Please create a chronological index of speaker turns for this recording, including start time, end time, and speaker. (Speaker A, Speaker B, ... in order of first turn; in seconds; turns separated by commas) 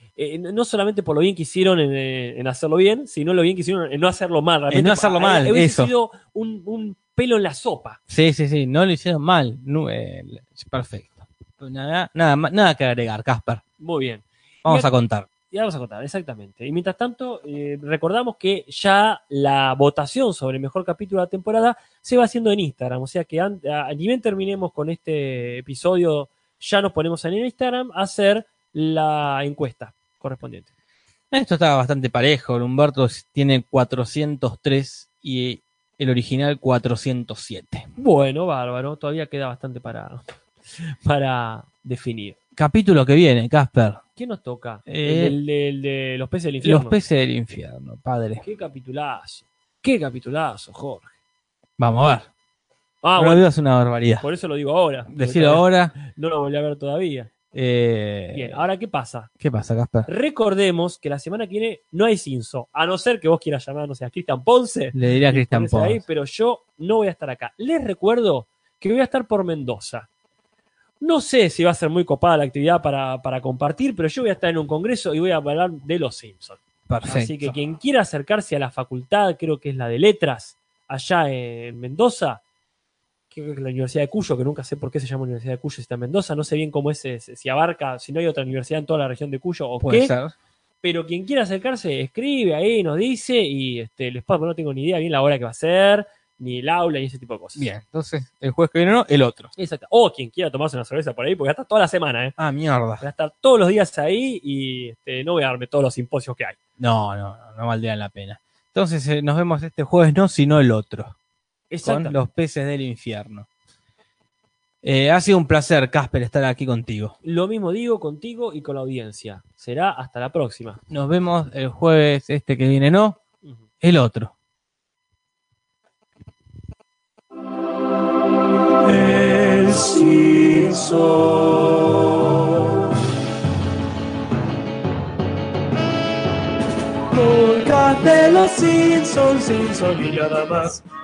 Speaker A: 0.1-8.0, Speaker B: 4.7-5.9, Speaker B: 8.1-13.6, Speaker A: 13.8-14.9, Speaker B: 14.6-15.3, Speaker A: 15.5-30.7, Speaker B: 31.3-37.9, Speaker A: 38.0-40.2, Speaker A: 40.8-42.4, Speaker B: 42.5-44.0, Speaker A: 44.1-46.9, Speaker B: 44.9-45.4, Speaker B: 46.6-48.4, Speaker A: 48.4-51.1, Speaker B: 51.8-52.3, Speaker A: 53.0-53.4, Speaker B: 53.1-54.2, Speaker A: 54.2-57.3, Speaker B: 55.1-56.0, Speaker B: 57.5-58.6, Speaker A: 58.3-59.3, Speaker B: 59.4-60.1, Speaker A: 60.0-70.1, Speaker B: 64.9-66.0, Speaker A: 71.0-82.4, Speaker B: 76.9-77.5, Speaker A: 83.3-90.1, Speaker B: 89.8-90.3, Speaker A: 90.8-97.7, Speaker B: 97.6-99.5, Speaker A: 99.6-102.3, Speaker B: 102.4-103.0, Speaker A: 103.0-106.6, Speaker B: 106.8-111.2, Speaker A: 111.7-112.2, Speaker B: 111.8-113.5, Speaker B: 114.8-117.1, Speaker A: 117.2-120.8, Speaker B: 120.9-123.2, Speaker B: 123.8-124.3, Speaker C: 128.8-132.8, Speaker C: 137.1-140.8